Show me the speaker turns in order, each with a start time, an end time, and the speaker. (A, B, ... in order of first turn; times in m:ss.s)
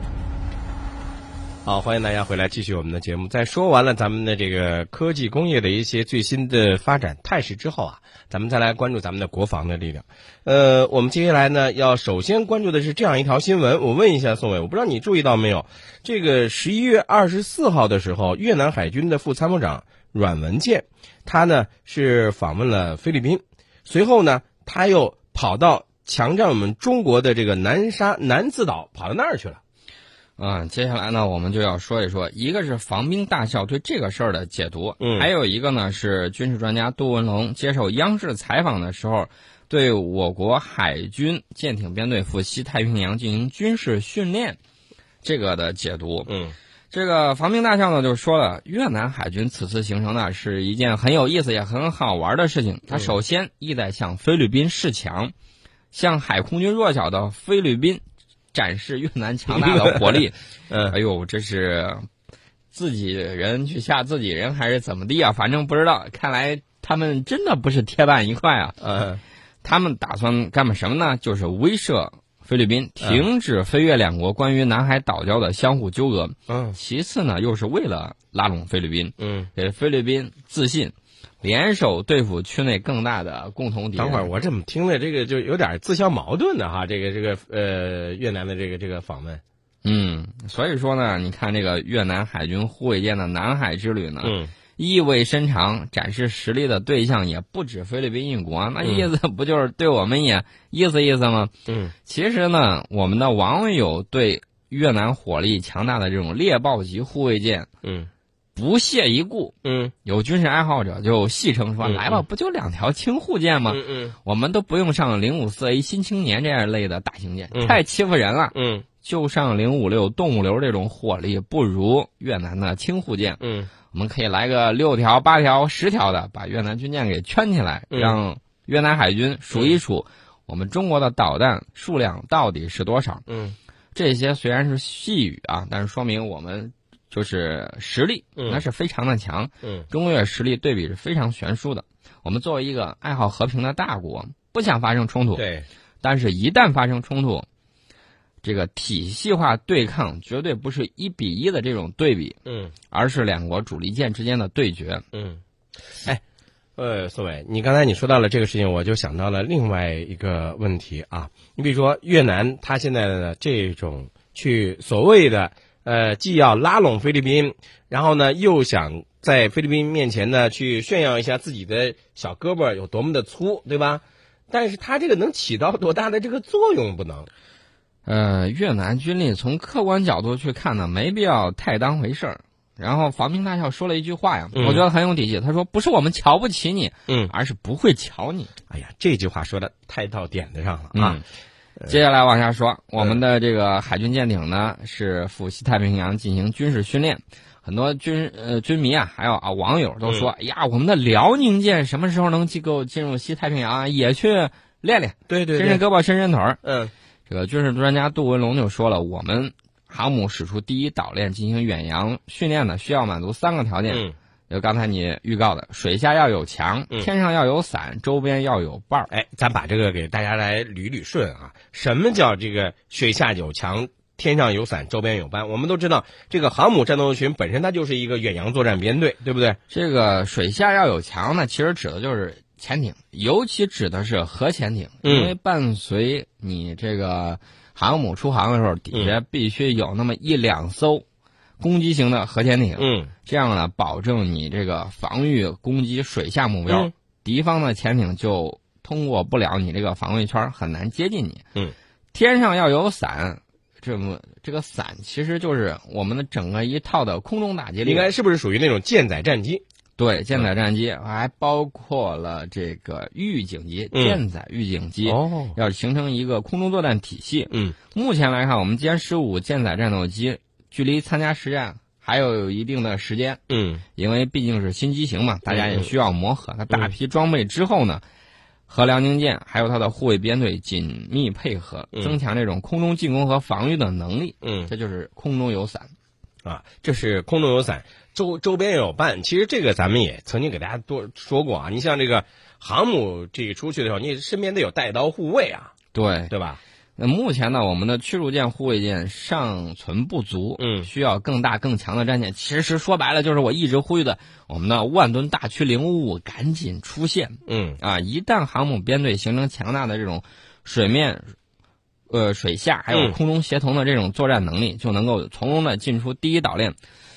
0:01.6-0:29.6 A
0:30.4-0:44.6 B
0:35.0-0:35.3 A
0:45.2-0:46.3 B
0:46.3-0:46.5 A
0:46.9-0:55.3 B
0:55.9-0:58.0 B
0:58.5-1:02.0 B
0:59.6-1:00.0 A
1:00.7-1:00.9 A
1:02.7-1:08.8 B
1:08.8-1:09.2 A
1:09.6-1:24.3 B
1:16.5-1:16.8 A
1:19.2-1:19.5 A
1:24.0-1:29.4 A
1:29.8-1:41.5 B
1:34.2-1:34.5 A
1:38.8-1:39.1 A
1:41.7-1:41.9 A
1:42.0-1:47.7 B
1:47.8-1:48.1 A
1:48.6-2:13.2 B
1:49.6-1:49.9 A
1:51.8-1:52.2 A
1:53.7-1:54.1 A
1:57.5-1:57.8 A
1:58.5-1:58.8 A
2:03.4-2:03.7 A
2:07.9-2:08.2 A
2:09.5-2:09.8 A
2:13.3-2:13.6 A
2:13.9-2:25.4 B
2:18.4-2:18.6 A
2:25.4-2:25.6 A
2:26.0-2:27.4 B
2:28.4-2:32.4 B
2:32.4-2:32.7 A
2:32.9-2:35.0 B
2:35.1-2:35.4 A
2:36.8-2:57.3 A
2:58.0-3:08.5 B
3:04.5-3:04.8 A
3:08.7-3:11.2 A
3:10.9-3:11.2 B
3:11.9-3:26.6 B
3:25.3-3:25.8 A
3:26.6-3:26.9 A
3:27.3-3:39.1 B
3:39.1-3:49.6 A
3:49.7-4:01.0 B
3:55.0-3:55.3 A
4:01.6-4:11.4 B
4:02.8-4:03.1 A
4:12.1-4:18.1 B
4:17.8-4:19.6 A
4:20.0-4:33.4 B
4:23.9-4:24.2 A
4:25.1-4:25.6 A
4:27.5-4:27.8 A
4:33.5-4:33.8 A
4:34.0-4:38.0 B
4:35.5-4:35.9 A
4:38.7-4:45.9 B
4:44.4-4:44.7 A
4:46.4-4:55.7 A
4:55.9-4:56.3 B
4:56.3-4:56.6 A
4:57.0-5:11.3 B
5:00.6-5:00.9 A
5:07.4-5:07.8 A
5:12.1-5:16.8 B
5:12.9-5:13.2 A